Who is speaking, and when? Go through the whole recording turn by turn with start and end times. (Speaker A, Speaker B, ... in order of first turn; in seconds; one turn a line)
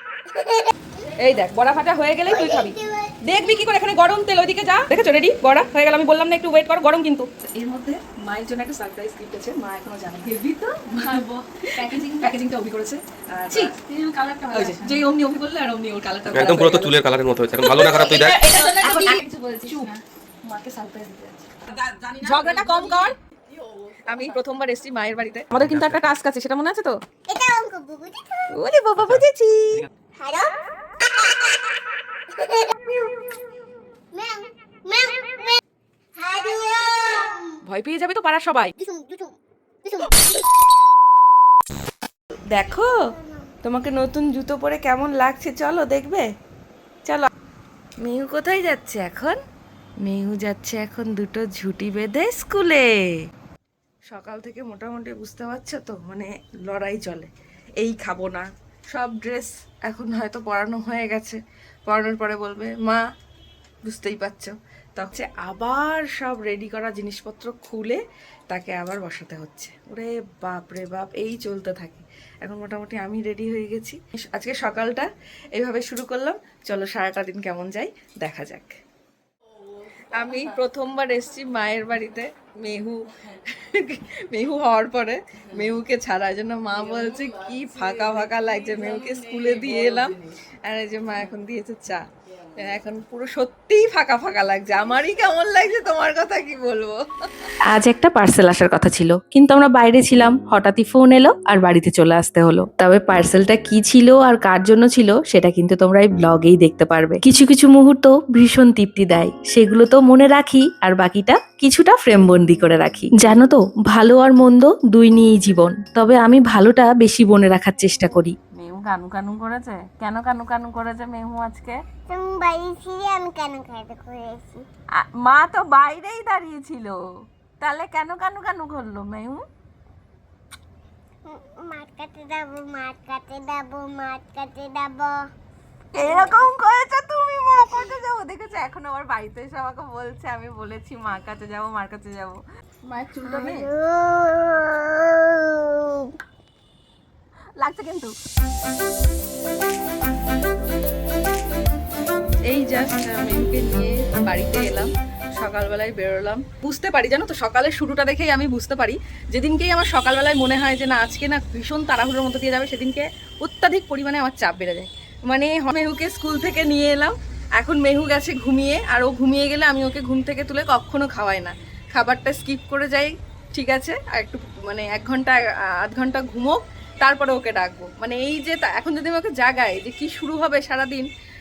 Speaker A: 0.3-0.7
Speaker B: 1.2-13.7
Speaker A: 2.3-3.5
Speaker C: 13.5-15.0
Speaker B: 14.5-17.0
Speaker D: 16.3-18.5
Speaker B: 17.8-19.9
Speaker C: 19.7-20.0
Speaker B: 20.4-21.5
Speaker B: 22.1-23.1
Speaker B: 24.1-27.0
Speaker D: 25.5-26.1
Speaker A: 27.3-28.5
Speaker B: 28.5-29.8
Speaker D: 29.0-29.9
Speaker A: 30.2-30.5
Speaker A: 31.1-31.5
Speaker A: 32.3-33.6
Speaker A: 34.1-35.6
Speaker A: 36.2-37.5
Speaker B: 37.6-38.7
Speaker A: 38.8-39.3
Speaker A: 39.8-40.2
Speaker B: 42.5-43.0
Speaker A: 43.1-43.5
Speaker B: 43.6-46.3
Speaker B: 48.0-49.4
Speaker B: 50.0-52.9
Speaker B: 54.1-63.0
Speaker B: 63.9-68.0
Speaker B: 68.5-78.8
Speaker B: 80.1-83.0
Speaker B: 83.6-90.1
Speaker C: 86.8-90.3
Speaker B: 90.7-92.0
Speaker B: 92.6-97.0
Speaker E: 97.7-118.3
Speaker A: 112.0-112.8
Speaker A: 116.3-116.9
Speaker B: 118.5-121.8
Speaker A: 122.1-124.6
Speaker B: 125.0-127.0
Speaker B: 127.6-129.4
Speaker A: 131.3-135.3
Speaker B: 135.9-143.7
Speaker A: 136.0-136.4
Speaker A: 137.7-138.0
Speaker A: 143.2-146.1
Speaker B: 147.6-148.1
Speaker B: 152.5-181.1